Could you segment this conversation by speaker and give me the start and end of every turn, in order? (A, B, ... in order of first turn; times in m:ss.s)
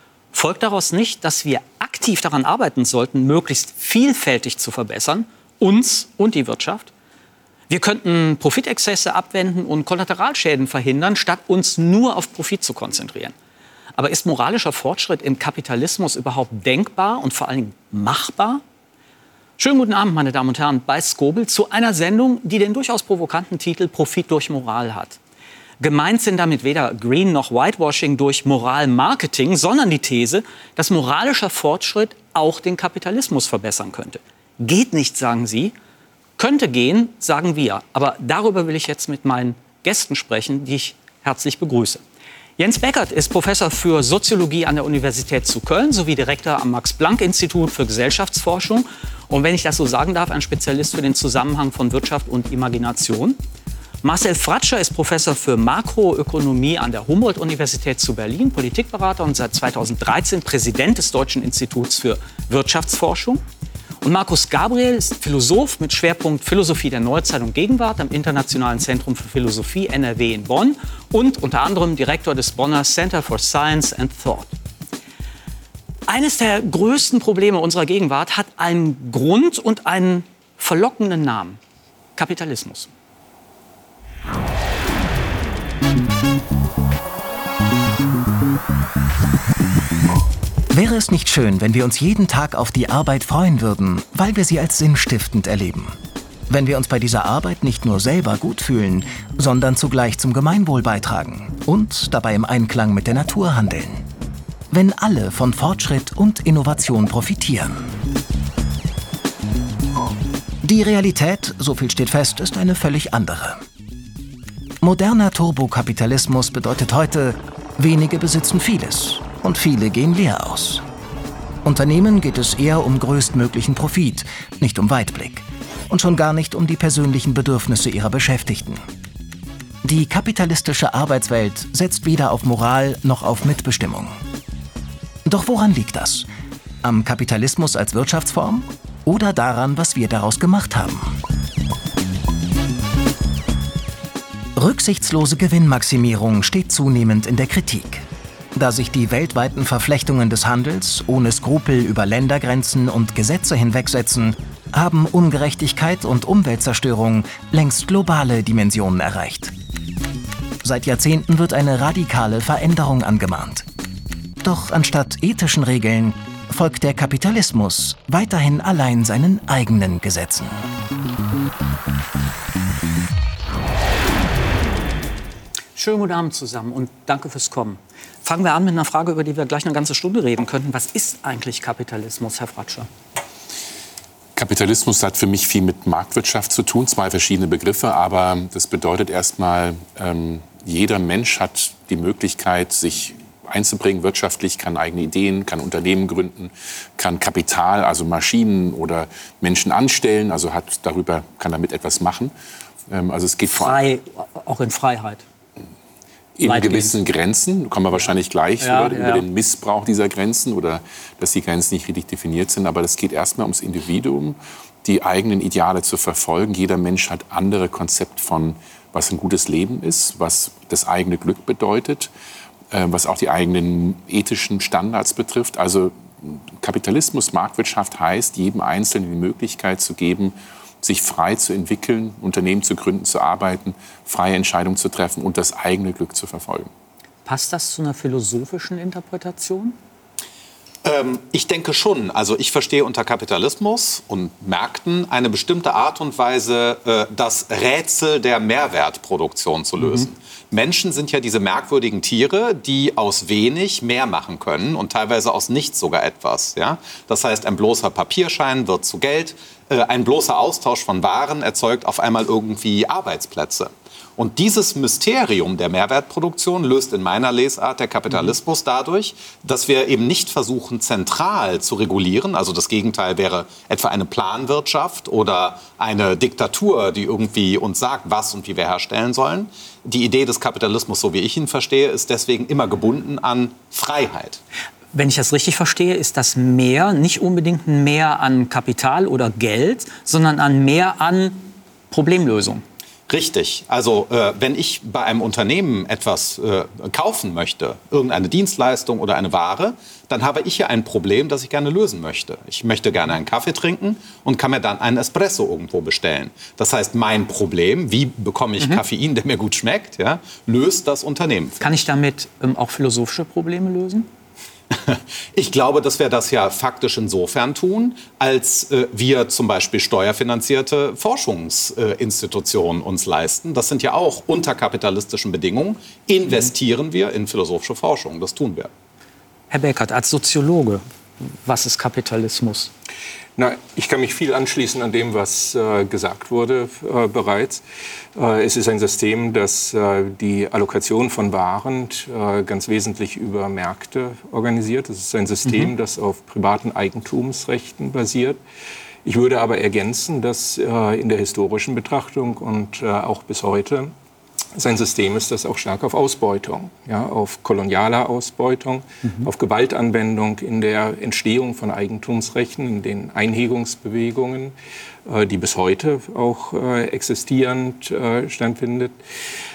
0:00.3-0:06.9 A
0:07.7-0:13.3 A
0:14.0-0:18.6 A
0:19.6-0:25.2 A
0:25.8-0:35.7 A
0:36.4-0:42.0 A
0:42.6-0:53.4 A
0:54.0-1:03.4 A
1:04.0-1:14.5 A
1:16.1-1:21.6 A
1:22.2-1:22.9 A
1:30.7-1:36.0 B
1:36.5-1:44.1 B
1:44.7-1:47.9 B
1:50.6-1:53.6 B
1:54.8-2:00.8 B
2:01.6-2:08.8 B
2:09.8-2:14.2 B
2:15.2-2:16.3 B
2:16.8-2:21.2 B
2:24.6-2:39.5 B
2:40.6-2:43.6 B
2:44.4-2:50.7 B
2:55.8-3:02.9 A
3:04.3-3:22.3 C
3:22.9-3:23.8 C
3:23.4-3:25.2 A
3:26.4-3:42.1 C
3:26.4-3:27.0 A
3:28.6-3:29.2 A
3:42.7-3:56.7 C
3:57.2-3:59.8 A
4:00.8-4:44.4 D
4:09.8-4:10.1 A
4:44.9-4:52.6 A
4:53.1-5:11.6 D
5:11.6-5:14.1 A
5:14.7-5:28.7 D
5:29.5-5:30.8 A
5:31.4-5:32.7 A
5:33.4-5:37.6 E
5:38.1-5:48.4 E
5:49.0-5:53.9 E
5:54.5-6:04.5 E
5:59.0-5:59.3 A
6:05.0-6:09.0 E